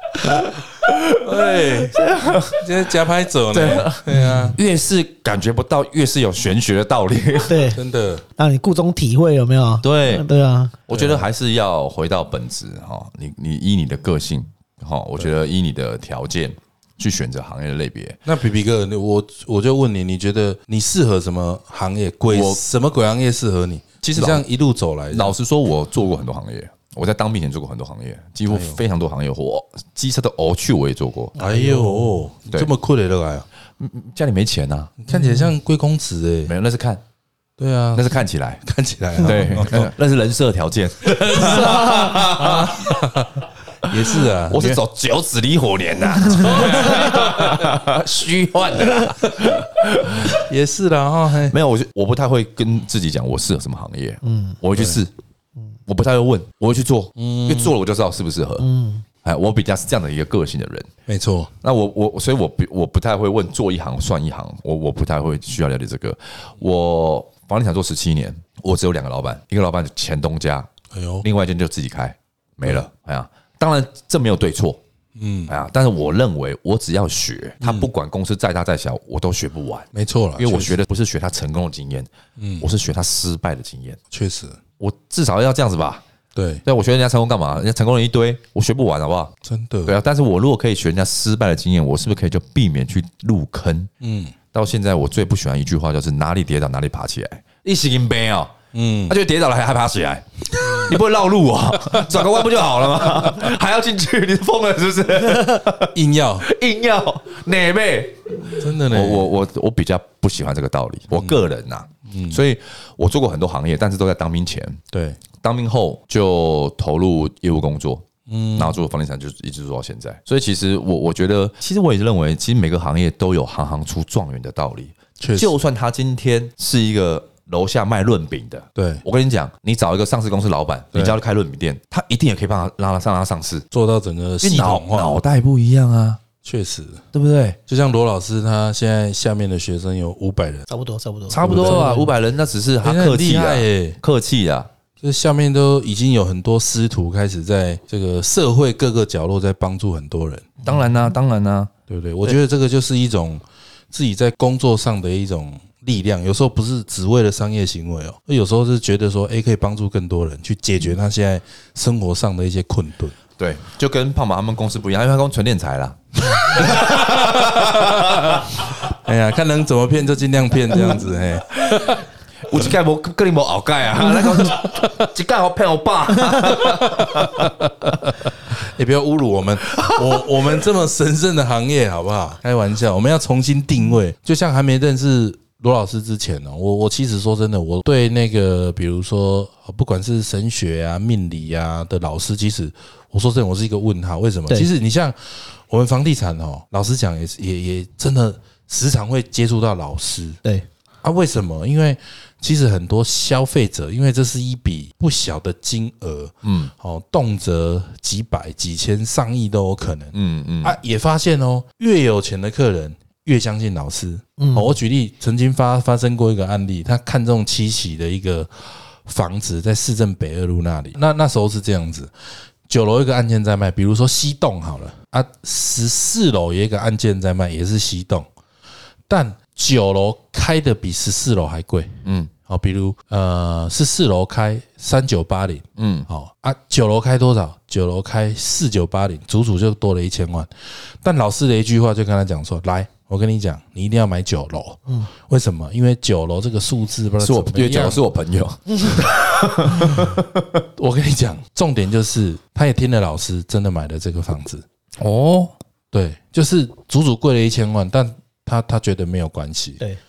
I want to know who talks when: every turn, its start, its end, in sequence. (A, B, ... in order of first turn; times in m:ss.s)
0:00.3-0:01.2 A
0:01.2-0:04.6 B
0:02.0-0:02.4 C
0:02.1-0:02.6 A
0:03.5-0:07.6 A
0:04.1-0:04.5 C
0:07.5-0:07.8 C
0:07.7-0:08.2 B
0:08.4-0:10.7 C
0:09.8-0:10.2 A
0:10.9-0:18.2 A
0:10.9-0:11.3 B
0:18.2-0:25.4 B
0:22.3-0:22.6 A
0:24.0-0:24.4 A
0:25.1-0:31.4 A
0:28.5-0:28.8 B
0:31.4-0:32.2 C
0:31.4-0:33.4 B
0:33.8-0:34.9 A
0:35.0-0:36.5 B
0:35.1-0:35.5 C
0:36.5-0:37.0 A
0:37.6-0:39.9 B
0:37.9-0:38.6 A
0:39.2-0:43.0 A
0:41.0-0:44.8 B
0:41.4-0:41.9 C
0:43.8-0:50.4 A
0:46.3-0:47.6 B
0:46.6-0:47.1 C
0:50.1-0:51.6 B
0:51.5-0:55.1 A
0:54.2-0:54.6 C
0:54.7-0:55.0 B
0:55.9-0:58.6 A
0:57.2-0:57.8 B
0:58.6-0:59.0 C
0:59.2-1:00.9 A
1:01.1-1:01.5 B
1:01.6-1:10.7 A
1:10.9-1:11.2 B
1:11.2-1:14.8 A
1:15.2-1:15.5 B
1:15.5-1:24.0 A
1:17.6-1:17.9 B
1:19.9-1:20.8 B
1:22.4-1:22.7 B
1:24.1-1:24.6 B
1:24.8-1:26.0 A
1:26.3-1:26.6 B
1:26.6-1:29.3 A
1:29.4-1:30.0 B
1:29.8-1:33.9 A
1:34.0-1:34.3 B
1:34.5-1:38.5 A
1:38.7-1:39.2 B
1:39.1-1:54.8 A
1:40.6-1:40.9 B
1:45.9-1:46.4 B
1:48.6-1:49.3 B
1:52.1-1:52.4 B
1:54.9-1:55.2 B
1:55.4-1:58.0 A
1:58.3-1:58.8 B
1:58.6-2:13.6 A
2:05.2-2:05.5 B
2:08.8-2:09.0 B
2:13.7-2:15.2 B
2:14.4-2:16.2 A
2:16.4-2:17.0 B
2:17.1-2:17.6 A
2:17.7-2:20.7 B
2:20.7-2:22.1 C
2:21.3-2:24.7 A
2:21.4-2:22.1 B
2:22.8-2:24.0 B
2:25.0-2:30.5 B
2:30.6-2:31.7 A
2:31.9-2:43.2 B
2:43.4-2:48.6 A
2:46.4-2:52.0 B
2:52.4-2:57.5 A
2:54.3-2:55.0 B
2:56.5-3:20.4 B
3:21.0-3:42.1 B
3:26.4-3:26.7 A
3:30.1-3:30.8 A
3:34.4-3:34.7 C
3:42.7-3:48.3 B
3:49.1-3:51.9 B
3:52.0-3:52.3 A
3:52.5-4:08.0 B
3:55.8-3:56.1 A
4:07.2-4:10.6 A
4:09.8-4:10.2 B
4:10.8-4:14.6 B
4:15.0-4:15.5 A
4:15.9-4:19.8 B